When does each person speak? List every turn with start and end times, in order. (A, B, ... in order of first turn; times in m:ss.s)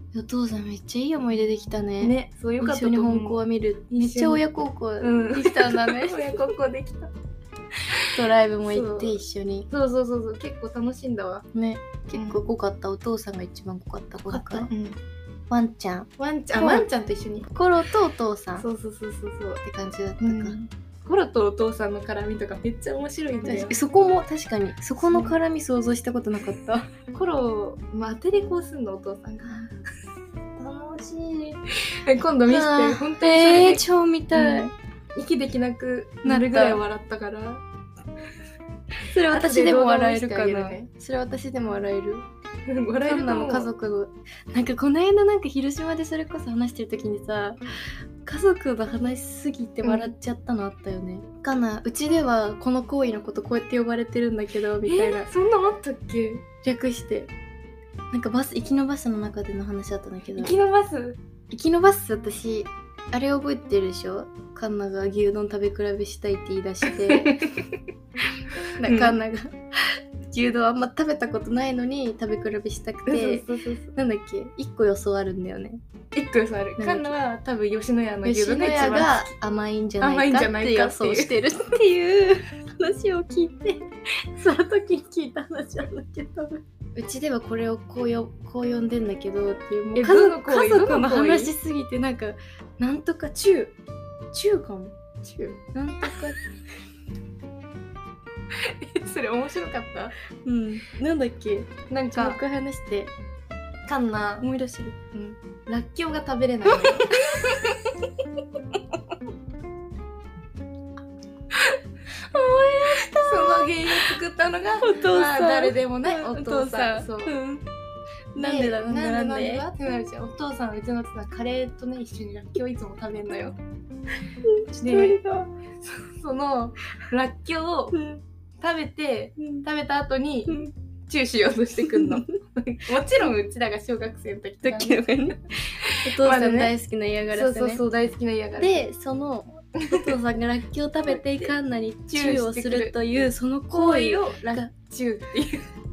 0:00.1-0:06.3 A
0:02.0-0:04.4 B
0:05.0-0:07.1 B
0:08.1-0:09.7 A
0:08.6-0:11.5 B
0:11.5-0:14.7 A
0:12.1-0:12.4 B
0:14.3-0:15.0 B
0:15.5-0:16.9 A
0:16.2-0:17.5 B
0:17.5-0:18.7 A
0:18.6-0:19.6 B
0:19.6-0:20.6 A
0:20.2-0:23.8 B
0:23.4-0:26.9 A
0:25.0-0:25.3 B
0:27.1-0:29.7 B
0:30.6-0:31.6 A
0:31.9-0:37.6 B
0:32.4-0:34.7 A
0:36.2-0:36.8 A
0:39.1-0:42.2 A
0:39.3-0:40.9 B
0:42.7-0:43.7 B
0:43.0-0:47.6 A
0:48.2-0:55.3 A
0:49.8-0:50.1 B
0:54.8-0:56.4 B
0:56.6-0:57.3 A
0:58.1-1:00.5 A
1:00.4-1:01.2 B
1:01.5-1:07.4 A
1:07.0-1:07.8 B
1:08.8-1:09.2 B
1:08.8-1:15.8 A
1:13.0-1:14.0 B
1:16.1-1:19.3 B
1:16.8-1:17.1 A
1:18.2-1:33.8 A
1:20.0-1:21.3 B
1:29.9-1:31.5 B
1:34.3-1:35.0 A
1:35.2-1:35.6 B
1:35.7-1:36.4 A
1:38.5-1:40.2 B
1:40.4-1:43.1 A
1:41.9-1:42.4 B
1:43.9-1:44.5 B
1:44.4-1:45.0 A
1:45.1-1:47.7 B
1:46.7-1:48.0 A
1:52.3-1:54.2 A
1:53.2-1:57.4 B
1:54.8-1:57.6 A
1:58.3-1:59.6 A
1:58.4-2:03.6 B
2:04.4-2:05.5 A
2:04.8-2:05.2 B
2:05.8-2:08.0 B
2:07.9-2:08.2 A
2:08.6-2:15.0 B
2:11.8-2:12.3 A
2:14.6-2:17.8 A
2:15.8-2:16.7 B
2:17.3-2:18.9 B
2:18.6-2:24.7 A
2:19.8-2:20.2 B
2:21.1-2:21.5 B
2:22.1-2:23.0 B
2:23.7-2:25.7 B